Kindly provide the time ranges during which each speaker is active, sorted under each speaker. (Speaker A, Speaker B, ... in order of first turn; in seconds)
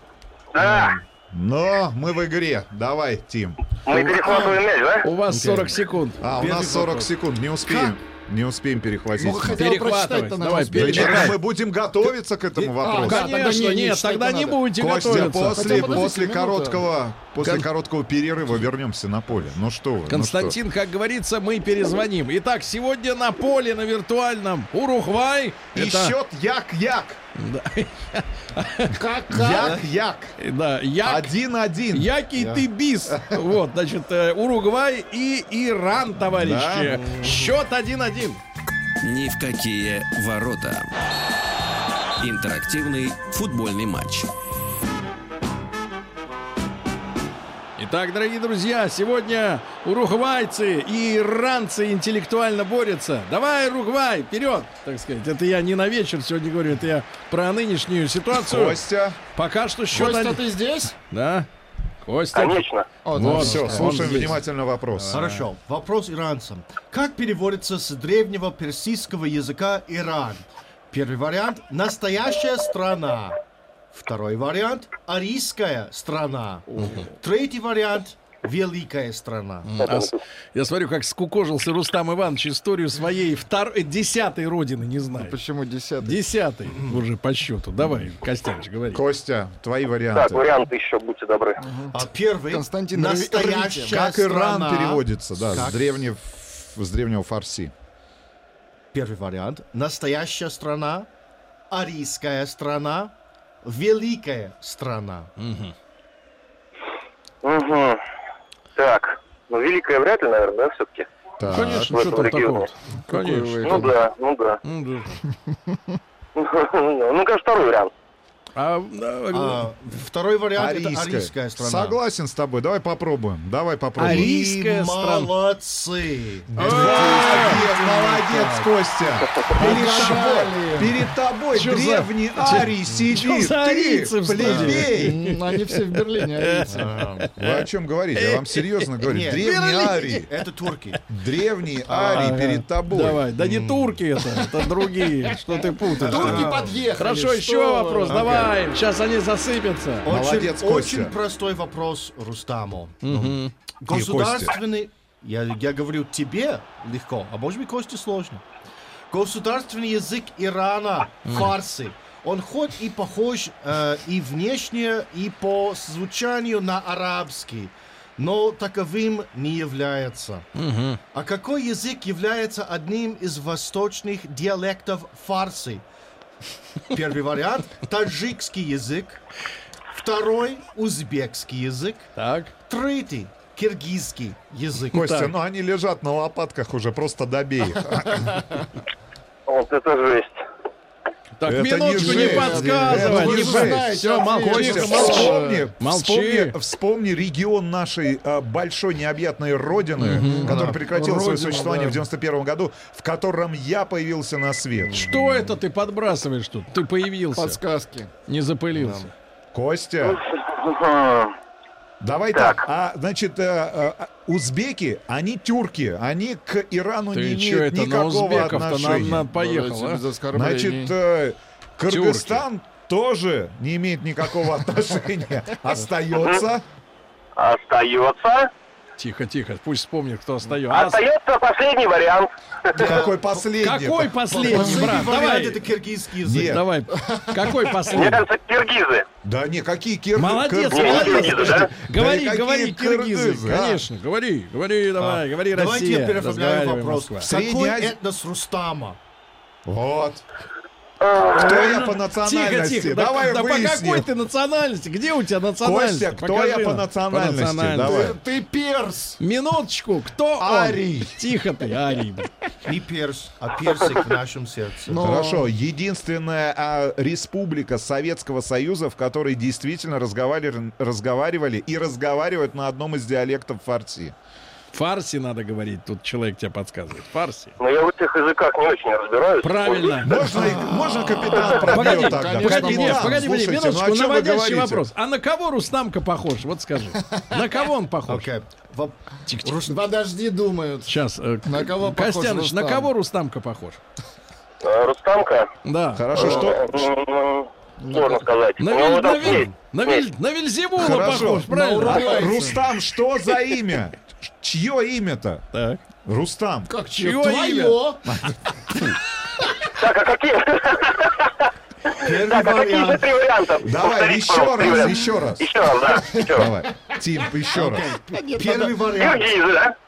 Speaker A: 0.5-1.0, 3.8-5.1, 62.3-62.9, 79.8-80.2, 90.1-91.6, 107.4-108.0, 108.8-111.1, 111.9-112.7, 113.6-114.6, 116.3-117.9, 189.5-190.4, 210.0-211.3, 212.3-212.6, 226.1-226.4, 227.3-228.5, 230.7-232.8, 237.9-239.1, 240.7-241.7, 251.0-251.6, 277.6-280.1, 294.6-295.5, 296.1-300.0, 309.8-316.5, 318.9-319.7
Speaker B: 0.6-1.0, 5.3-7.1, 7.7-7.9, 29.5-29.8, 32.3-32.7, 36.9-37.5, 65.1-73.4, 73.9-79.7, 91.9-95.8, 98.9-101.1, 101.7-105.3, 119.3-122.0, 124.0-128.7, 129.6-130.2, 134.4-134.8, 136.7-137.3, 139.1-139.5, 140.2-141.0, 143.3-144.0, 146.0-146.8, 148.1-148.5, 150.0-158.4, 159.1-170.4, 171.1-175.8, 176.9-179.2, 179.9-182.1, 182.7-185.1, 204.8-205.6, 208.7-209.1, 232.7-233.2, 234.3-236.6, 245.0-249.0, 262.6-265.1, 280.3-281.6, 288.1-289.8, 312.0-313.0, 317.5-319.3
Speaker C: 1.3-3.6, 6.2-9.8, 10.7-13.4, 14.7-20.6, 25.7-27.2, 29.3-30.4, 31.0-32.1, 33.1-33.4, 36.4-37.0, 58.3-59.2, 63.2-65.3, 88.9-90.4, 93.9-97.7, 111.4-111.9, 120.5-124.3, 126.5-135.2, 137.4-140.3, 141.1-143.2, 150.1-151.2, 153.9-154.6, 184.9-188.4, 191.4-205.1, 209.5-210.2, 212.0-219.3, 220.3-226.7, 232.7-234.2, 236.2-236.6, 239.2-243.9, 247.2-248.0, 249.7-250.2, 251.2-254.1, 255.6-258.2, 260.4-261.2, 265.0-274.1, 280.0-284.9, 295.9-296.9, 300.8-305.4, 306.0-306.7, 308.1-308.8, 313.6-315.5, 316.3-317.9
Speaker D: 3.9-6.5, 9.6-11.4, 12.6-16.1, 20.1-26.1, 27.4-29.0, 30.4-31.3, 31.9-38.4, 47.8-58.8, 59.3-60.5, 61.1-61.5, 62.0-64.4, 64.9-65.5, 76.8-77.1, 79.7-85.4, 86.0-89.0, 105.4-105.7, 111.5-113.9, 114.6-115.2, 118.5-119.7, 124.0-125.3, 126.6-127.6, 131.5-140.3, 141.9-150.1, 153.0-153.5, 170.6-171.0, 182.2-182.5, 184.9-185.3, 191.4-196.5, 200.0-200.7, 204.9-207.6, 208.3-209.1, 217.1-220.0, 221.9-222.4, 229.0-231.0, 233.6-235.6, 236.4-238.2, 240.2-247.3, 251.4-258.1, 259.2-262.3, 274.7-277.5, 279.4-280.2, 281.7-288.3, 290.9-293.8, 295.6-296.2, 298.6-302.4, 305.5-305.8, 306.9-307.8
Speaker E: 9.2-11.4, 12.7-16.8, 28.9-29.8, 59.9-61.0, 63.0-64.3, 85.2-86.2, 91.6-91.9, 92.5-94.0, 113.1-113.9, 129.5-130.9, 134.9-136.9, 146.0-148.5, 191.9-195.7, 200.2-202.0, 207.3-208.1, 219.2-220.9, 236.9-237.8, 257.8-259.2, 264.9-265.5, 281.4-283.3, 289.6-290.9, 291.4-292.9, 297.8-298.2, 301.4-302.6, 306.7-308.1, 318.1-318.9
Speaker F: 39.0-40.9, 42.2-44.3